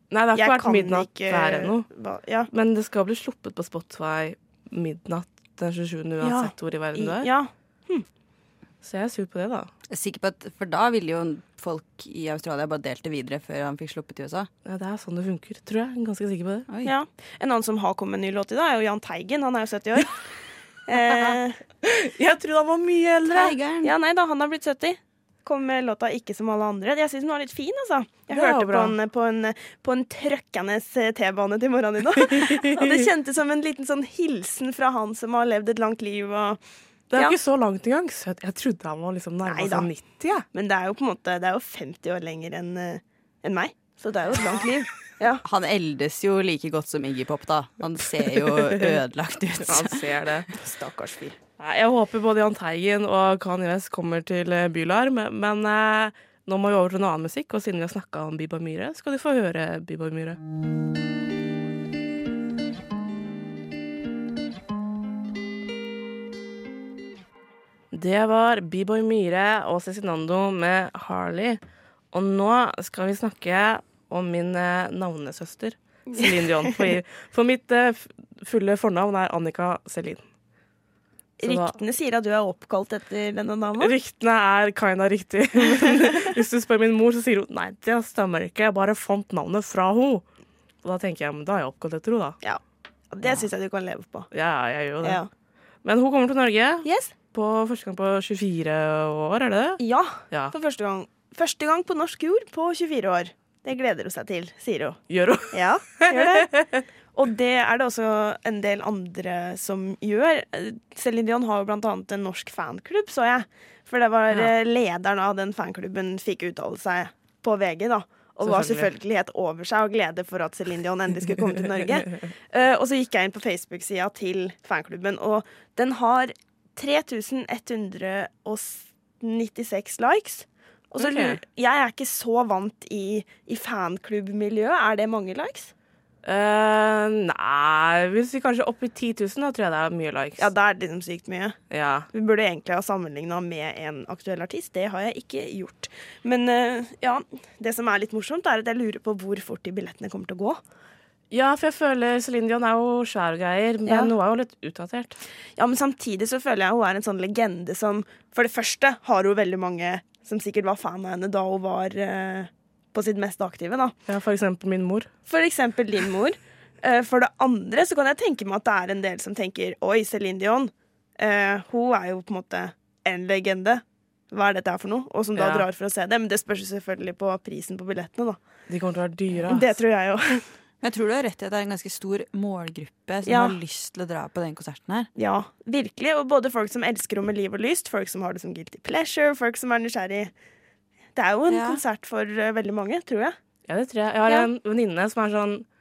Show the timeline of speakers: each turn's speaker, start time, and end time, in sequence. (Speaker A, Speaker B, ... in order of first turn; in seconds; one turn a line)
Speaker A: 0.1-1.8
Speaker B: 0.3-2.5
Speaker A: 2.5-7.3
Speaker B: 6.2-8.0
Speaker A: 8.8-9.7
Speaker C: 9.9-14.5
Speaker A: 14.6-16.6
Speaker C: 16.7-16.9
Speaker B: 16.8-20.2
Speaker B: 20.9-21.6
Speaker A: 21.8-23.5
Speaker C: 23.3-23.9
Speaker B: 23.8-36.6
Speaker A: 28.3-28.9
Speaker A: 32.2-33.0
Speaker A: 37.1-40.5
Speaker B: 39.4-39.9
Speaker B: 40.5-45.4
Speaker C: 45.4-50.0
Speaker A: 48.3-48.9
Speaker A: 49.6-50.5
Speaker B: 50.5-51.4
Speaker A: 51.6-60.4
Speaker A: 67.9-71.6
Speaker A: 72.1-80.2
Speaker B: 76.1-76.9
Speaker B: 81.4-83.9
Speaker A: 81.4-81.8
Speaker A: 83.8-90.2
Speaker A: 90.8-92.4
Speaker B: 93.1-94.3
Speaker A: 94.3-95.2
Speaker B: 95.0-95.3
Speaker A: 95.8-100.5
Speaker B: 96.8-97.1
Speaker B: 99.8-106.5
Speaker A: 105.1-106.8
Speaker B: 107.1-135.7
Speaker A: 118.4-118.9
Speaker A: 131.0-131.4
Speaker A: 136.2-140.5
Speaker B: 140.4-141.6
Speaker A: 141.7-142.1
Speaker B: 142.1-150.6
Speaker A: 151.3-155.2
Speaker B: 153.8-154.1
Speaker B: 155.6-163.9
Speaker A: 164.1-165.1
Speaker B: 165.3-178.4
Speaker A: 175.3-175.7
Speaker A: 178.7-179.7
Speaker B: 179.5-180.4
Speaker C: 180.8-185.1
Speaker B: 183.2-183.6
Speaker B: 185.2-190.3
Speaker B: 191.1-193.3
Speaker C: 191.5-191.8
Speaker A: 193.7-195.6